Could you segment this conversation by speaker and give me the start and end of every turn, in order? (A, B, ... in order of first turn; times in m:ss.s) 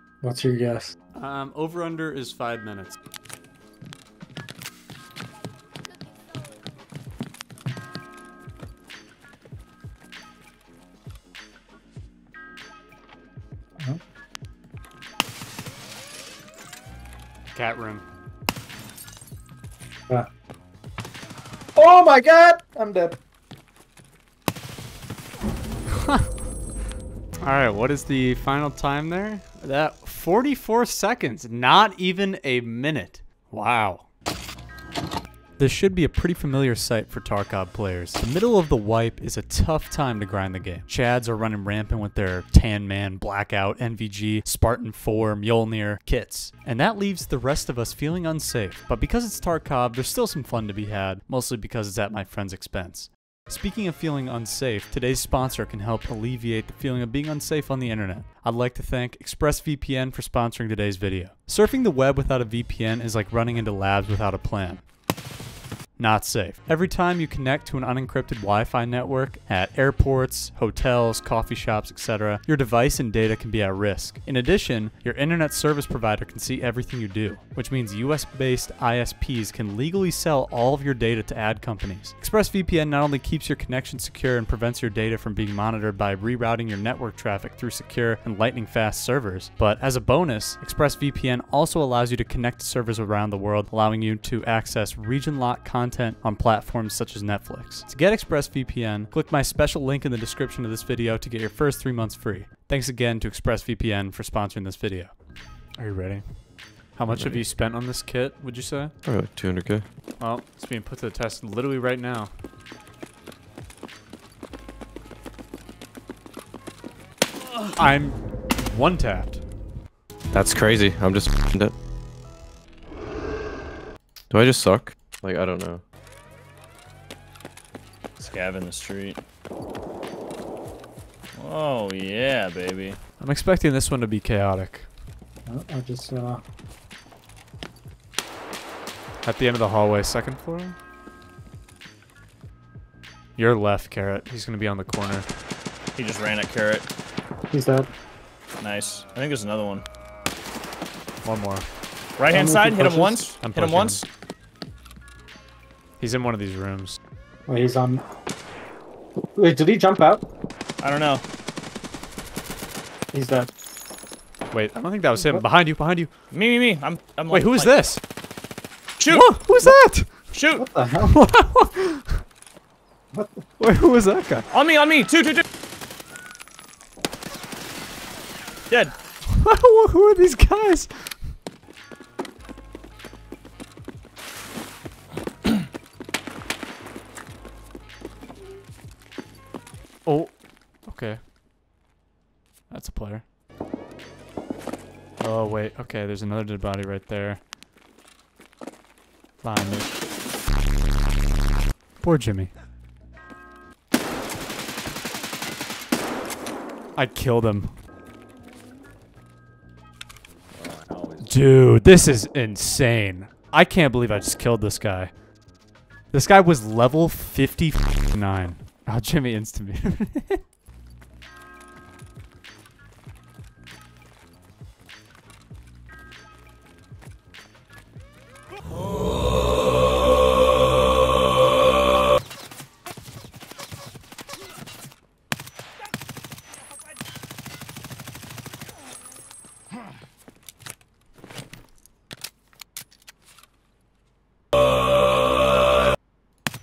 0:00.2-0:00.9 A
0:01.1-0:03.0 B
0:17.5-0:18.0 B
0:21.8-0:23.2 A
0:27.4-0:34.0 B
0:35.6-1:04.8 B
1:06.0-1:45.2 B
1:45.8-1:49.0 B
1:47.1-1:47.5 C
1:49.0-1:49.9 C
1:50.2-1:52.3 B
1:57.8-1:59.4 B
2:00.3-2:01.8 C
2:04.3-2:05.8 C
2:08.2-2:09.2 D
2:11.3-2:13.0 D
2:13.2-2:14.9 B
2:15.4-2:16.4 A
2:19.2-2:20.8 B
2:23.4-2:25.3 B
2:25.9-2:26.9 D
2:27.5-2:27.9 A
2:28.6-2:29.8 D
2:31.2-2:31.7 B
2:32.2-2:34.0 D
2:32.3-2:33.3 A
2:33.4-2:34.0 B
2:36.0-2:37.0 B
2:37.5-2:38.0 A
2:39.4-2:40.2 A
2:40.8-2:41.2 D
2:43.1-2:43.5 A
2:44.5-2:46.1 B
2:46.3-2:47.8 D
2:47.3-2:48.0 B
2:49.0-2:49.4 D
2:49.1-2:50.2 B
2:50.3-2:50.7 D
2:50.5-2:51.2 A
2:51.1-2:52.2 B
2:53.1-2:53.4 A
2:53.6-2:54.5 B
2:54.5-2:55.4 D
2:59.3-3:01.2 B
3:10.0-3:11.2 B
3:12.7-3:13.2 B
3:15.2-3:17.4 B
3:19.4-3:19.9 B
3:22.0-3:22.5 B
3:27.0-3:27.7 B
3:30.5-3:31.3 D
3:31.2-3:35.1 B
3:36.1-3:40.4 B